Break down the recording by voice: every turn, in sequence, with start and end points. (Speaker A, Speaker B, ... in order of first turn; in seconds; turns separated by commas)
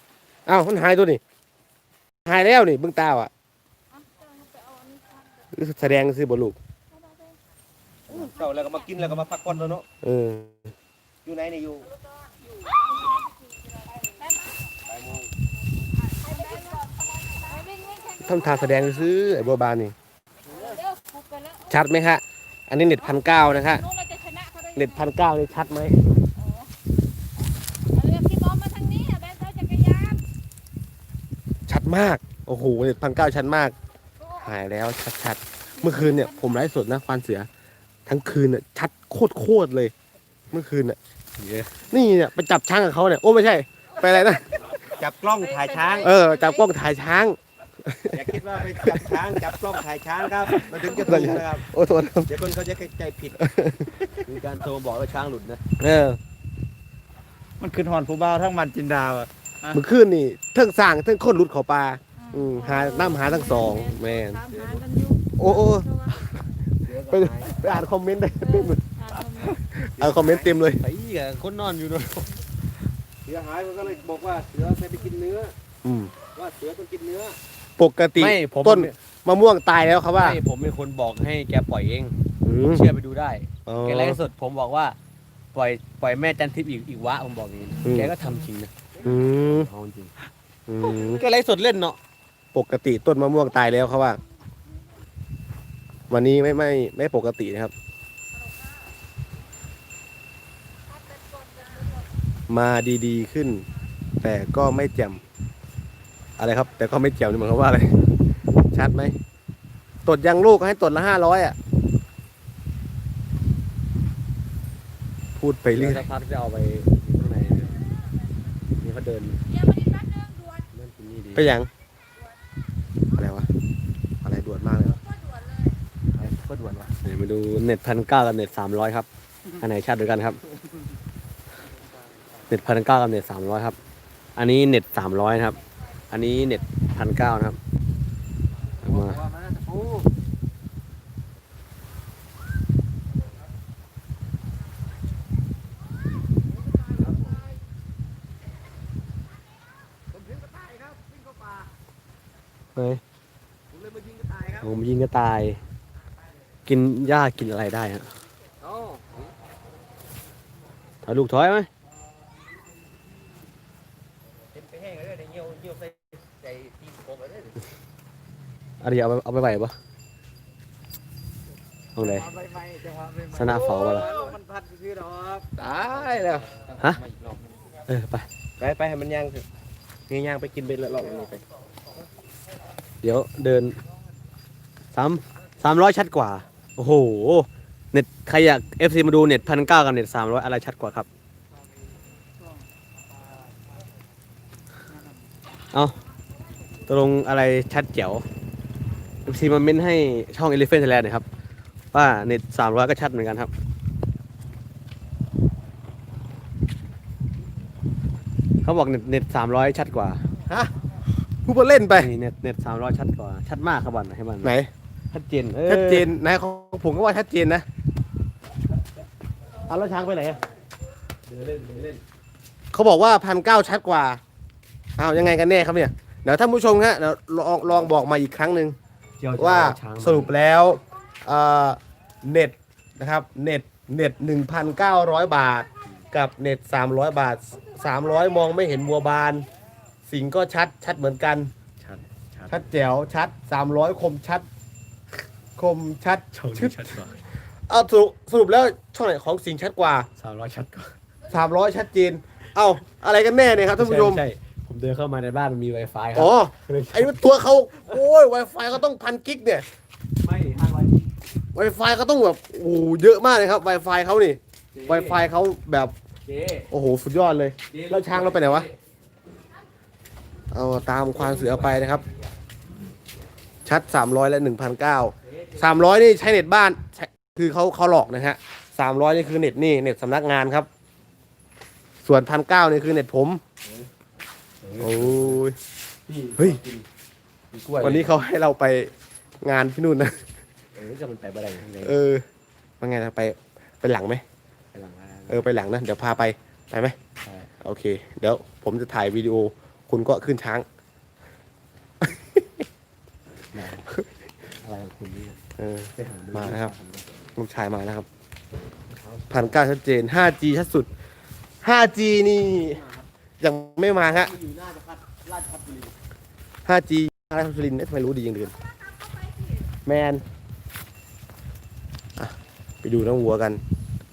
Speaker A: 0.5-1.2, Speaker A: 2.3-3.3, Speaker B: 4.1-5.2, Speaker A: 5.5-6.6, Speaker C: 8.1-9.9, Speaker A: 10.0-10.6, Speaker C: 11.2-11.9, Speaker B: 16.3-18.2, Speaker A: 18.2-19.9, Speaker B: 20.7-21.5, Speaker A: 21.7-23.9, Speaker B: 23.9-24.7, Speaker A: 24.8-26.0, Speaker B: 27.9-30.3, Speaker A: 31.7-33.7, Speaker A: 34.4-37.5, Speaker A: 38.1-39.9, Speaker A: 40.5-41.0, Speaker D: 41.4-41.7, Speaker A: 41.9-44.8, Speaker C: 44.9-46.1, Speaker B: 45.5-46.2, Speaker A: 46.0-49.6, Speaker C: 48.1-51.6, Speaker A: 50.4-52.3, Speaker C: 52.3-53.4, Speaker A: 53.4-54.2, Speaker D: 54.3-55.6, Speaker A: 55.8-56.2, Speaker C: 57.6-59.8, Speaker A: 59.7-64.5, Speaker B: 64.5-65.2, Speaker C: 64.5-64.8, Speaker A: 65.4-66.1, Speaker C: 66.9-67.7, Speaker A: 67.1-70.8, Speaker C: 70.0-70.5, Speaker D: 70.8-72.4, Speaker C: 73.2-75.5, Speaker A: 75.8-76.2, Speaker C: 76.4-77.4, Speaker A: 77.8-80.4, Speaker D: 78.2-79.0, Speaker D: 80.1-82.2, Speaker A: 82.4-82.9, Speaker D: 82.7-85.0, Speaker A: 83.7-84.2, Speaker D: 85.5-88.7, Speaker A: 87.8-88.1, Speaker A: 89.0-89.7, Speaker D: 89.4-90.1, Speaker A: 90.7-91.2, Speaker D: 90.8-92.0, Speaker A: 92.5-94.2, Speaker A: 96.1-97.7, Speaker A: 102.5-103.7, Speaker A: 104.2-105.2, Speaker A: 106.4-107.9, Speaker A: 108.7-109.2, Speaker A: 110.1-111.6, Speaker A: 115.4-116.1, Speaker D: 115.7-117.9, Speaker D: 118.8-119.7, Speaker B: 119.8-120.6, Speaker D: 120.7-121.5, Speaker A: 121.3-121.7, Speaker A: 123.1-123.5, Speaker A: 124.2-125.0, Speaker D: 126.2-129.1, Speaker D: 129.6-130.4, Speaker D: 132.5-133.8, Speaker D: 134.4-135.6, Speaker D: 136.1-137.6, Speaker D: 138.8-139.3, Speaker C: 139.1-140.0, Speaker C: 150.1-151.7, Speaker D: 152.8-153.0, Speaker C: 153.8-154.7, Speaker D: 154.6-155.6, Speaker D: 156.7-158.1, Speaker C: 158.6-159.1, Speaker D: 161.1-161.7, Speaker C: 164.5-167.6, Speaker D: 168.8-169.7, Speaker D: 172.0-172.3, Speaker C: 172.2-175.5, Speaker D: 173.3-174.2, Speaker A: 175.6-176.5, Speaker C: 176.5-177.5, Speaker D: 177.9-178.3, Speaker A: 178.6-179.4, Speaker A: 180.1-181.4, Speaker D: 183.0-183.8, Speaker D: 184.9-191.1, Speaker D: 196.9-198.2, Speaker D: 199.3-201.3, Speaker D: 201.9-203.5, Speaker D: 208.6-210.2, Speaker A: 211.4-212.1, Speaker D: 212.0-214.6, Speaker A: 214.4-214.7, Speaker D: 215.1-216.1, Speaker A: 215.7-217.7, Speaker A: 219.7-220.4, Speaker D: 221.3-222.0, Speaker A: 222.7-224.2, Speaker A: 225.0-228.8, Speaker D: 229.2-230.3, Speaker A: 229.4-239.5, Speaker A: 240.1-241.5, Speaker D: 241.8-242.7, Speaker A: 242.5-244.5, Speaker A: 245.6-247.0, Speaker D: 246.3-247.2, Speaker A: 247.7-250.1, Speaker D: 250.2-250.9, Speaker A: 251.3-254.2, Speaker D: 253.8-257.2, Speaker A: 256.1-259.6, Speaker D: 260.2-261.1, Speaker A: 261.6-265.9, Speaker D: 264.7-265.3, Speaker D: 266.3-266.7, Speaker A: 266.7-268.7, Speaker D: 267.7-268.7, Speaker A: 270.5-272.1, Speaker D: 271.1-272.0, Speaker A: 273.6-280.7, Speaker A: 282.0-283.4, Speaker D: 284.6-285.4, Speaker A: 284.8-285.6, Speaker D: 286.1-286.9, Speaker D: 287.5-288.1, Speaker A: 287.8-288.9, Speaker A: 289.4-290.2, Speaker D: 290.8-291.9, Speaker A: 291.8-292.2, Speaker A: 292.8-294.2, Speaker D: 294.7-295.4, Speaker A: 295.3-297.0, Speaker D: 297.2-297.5, Speaker A: 297.6-300.6, Speaker A: 302.0-302.6, Speaker D: 303.5-303.9, Speaker D: 304.4-305.4, Speaker A: 305.6-306.7, Speaker D: 306.0-307.1, Speaker A: 307.4-308.1, Speaker D: 308.9-309.6, Speaker A: 309.3-310.9, Speaker A: 311.6-312.9, Speaker A: 313.4-314.3, Speaker D: 314.1-315.9, Speaker A: 316.7-318.5, Speaker A: 319.9-320.2, Speaker A: 322.2-323.6